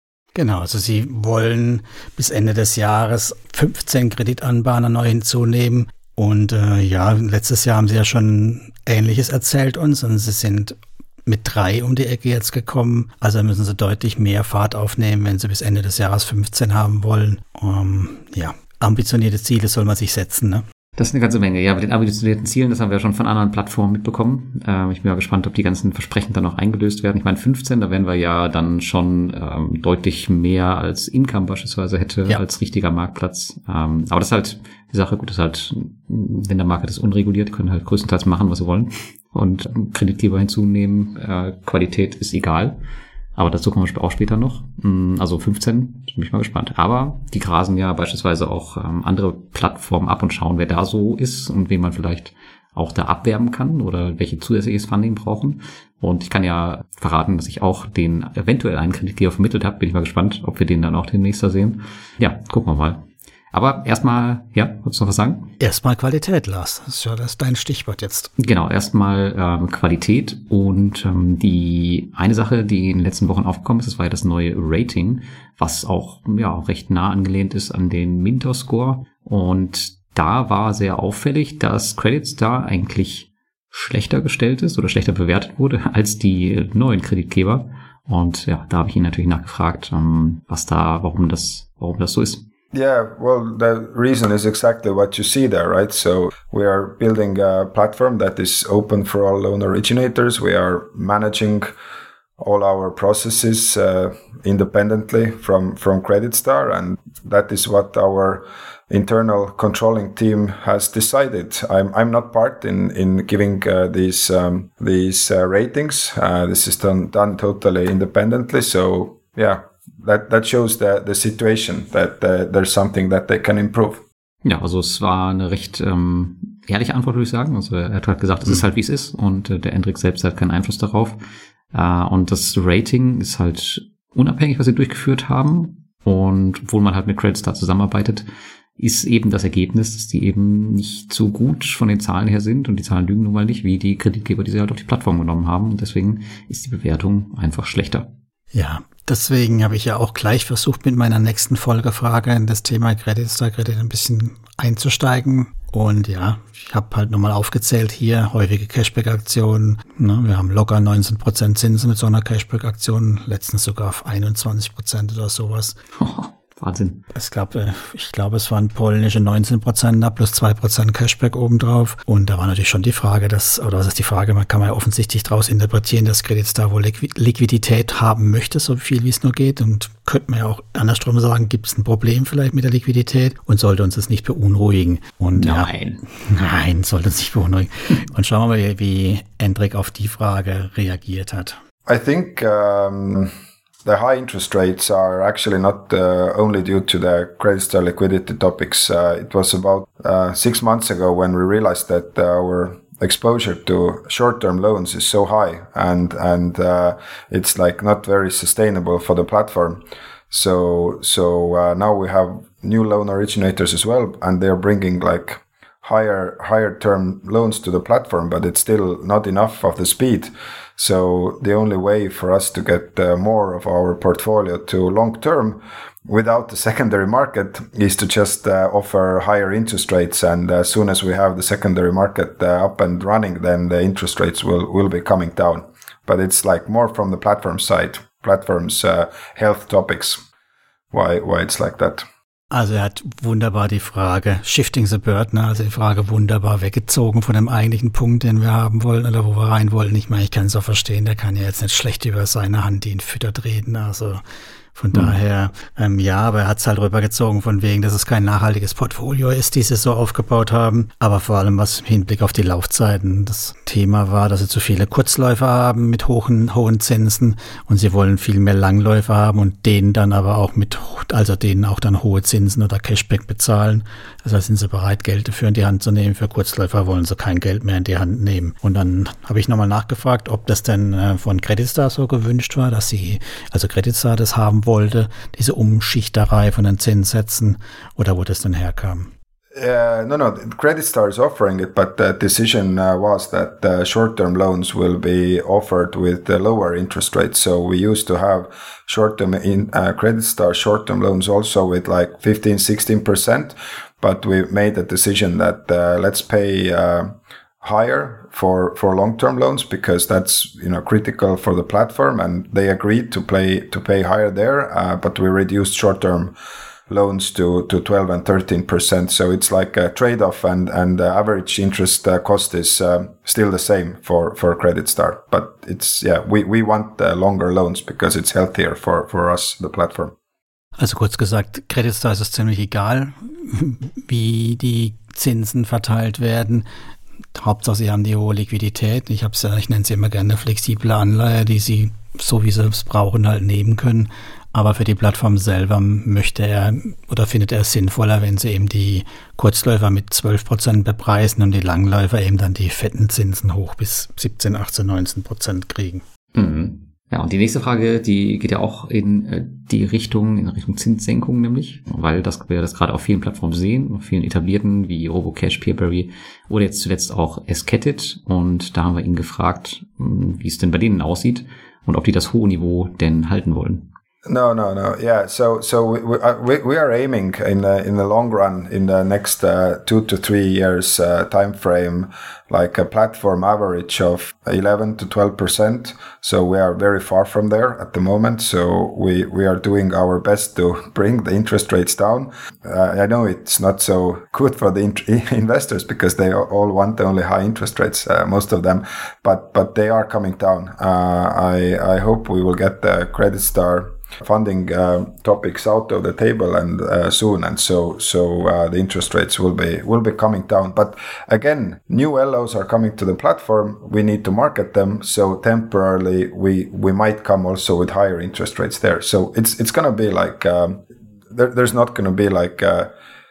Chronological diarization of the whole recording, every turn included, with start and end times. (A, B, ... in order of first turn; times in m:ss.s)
0:00.3-0:20.6 A
0:21.0-0:42.8 B
0:43.4-1:05.5 B
1:05.6-1:08.3 A
1:08.4-1:32.4 B
1:32.7-1:41.7 C
1:42.4-2:04.0 C
2:04.4-2:11.2 B
2:11.7-2:18.3 B
2:18.8-2:28.1 B
2:28.5-2:45.8 A
2:46.0-2:47.0 B
2:47.1-3:11.6 A
3:05.3-3:06.0 B
3:11.9-3:13.3 C
3:13.8-4:00.2 C
4:00.9-4:02.1 C
4:02.5-4:14.2 A
4:14.7-4:49.1 A
4:49.5-5:16.3 C
5:16.9-5:30.1 C
5:30.8-5:36.6 A
5:37.3-5:56.0 A
5:56.3-6:13.9 B
6:14.2-7:02.9 C